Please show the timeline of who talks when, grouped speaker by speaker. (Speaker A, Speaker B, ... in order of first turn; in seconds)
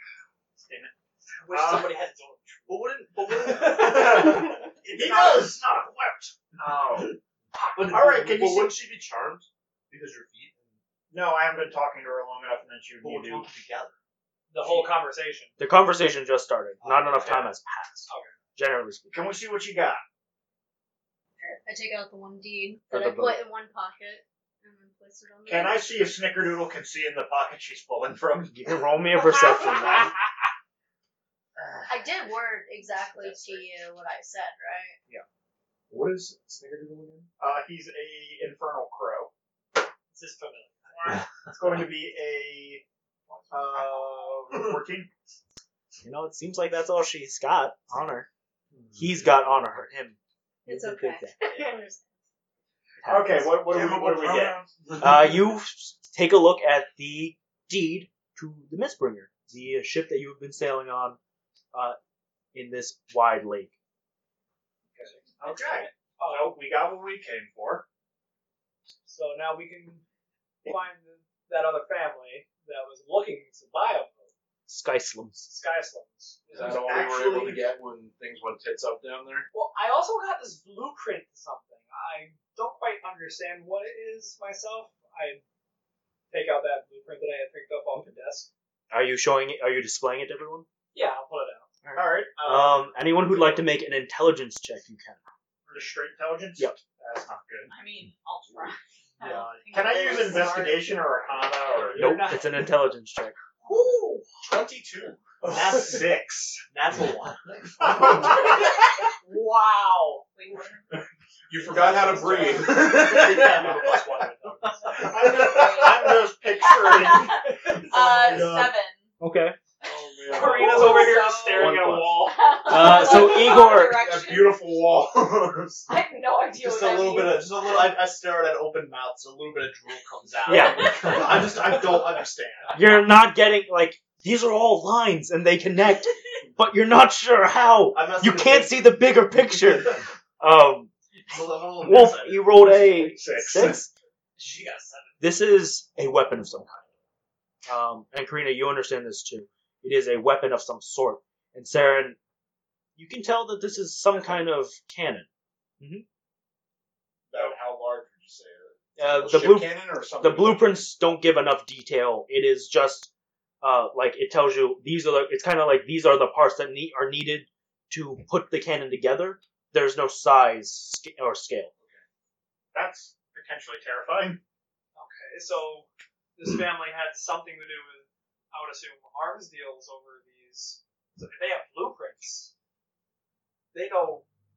Speaker A: 0.6-0.9, 1.5-1.9, 3.6-7.1, 7.8-8.7, 11.1-13.5, 19.1-20.0, 25.4-28.6, 31.6-31.8, 37.4-39.3, 41.4-42.8, 43.5-45.1, 53.0-54.6, 65.4-67.8, 76.8-77.5, 91.9-93.6, 95.7-97.7, 99.7-102.2, 105.4-106.6, 107.8-108.5, 115.0-118.7, 142.8-143.8, 157.3-157.6, 172.7-174.4
Speaker B: 1.4-2.9, 14.5-15.5, 17.1-17.5, 18.1-18.3, 29.7-29.9, 40.1-41.2, 64.9-65.3, 66.2-66.6, 69.0-70.0, 70.6-74.3, 75.4-76.8, 79.5-85.4, 86.3-88.5, 90.9-91.7, 95.7-95.9, 100.2-100.6, 101.7-102.4, 103.7-104.2, 109.3-110.2, 111.8-115.0, 120.3-122.8, 174.9-182.5, 183.7-184.2
Speaker C: 2.7-5.5, 7.8-10.7, 13.0-13.9, 16.8-17.3, 76.7-77.6, 99.2-100.3, 105.5-106.1, 106.7-108.3, 111.8-115.3, 121.5-122.3, 126.6-132.8, 137.9-138.9, 141.3-142.5
Speaker D: 15.6-19.2, 22.9-23.4, 28.5-30.1, 46.0-48.3, 48.9-51.4, 53.0-53.6, 55.0-61.2, 62.5-63.7, 65.5-65.8, 74.7-75.5, 88.9-90.7, 91.8-95.2, 102.0-103.4, 119.2-119.6, 122.7-124.0, 130.4-131.2, 132.7-140.9, 141.8-143.9, 145.2-146.8, 147.7-152.2, 153.0-155.2, 155.8-156.0, 159.0-163.1, 163.6-171.7
Speaker E: 21.4-25.9, 31.8-35.0, 50.6-52.1
Speaker F: 35.9-37.3, 43.3-44.0, 48.7-49.4, 53.6-55.5, 76.5-79.5, 104.4-105.2, 111.5-113.3, 119.8-121.2, 123.2-125.9, 157.3-160.9, 171.8-172.0
Speaker G: 97.7-100.8, 110.0-110.9, 115.2-119.1, 119.8-124.9, 125.9-127.9, 130.8-131.2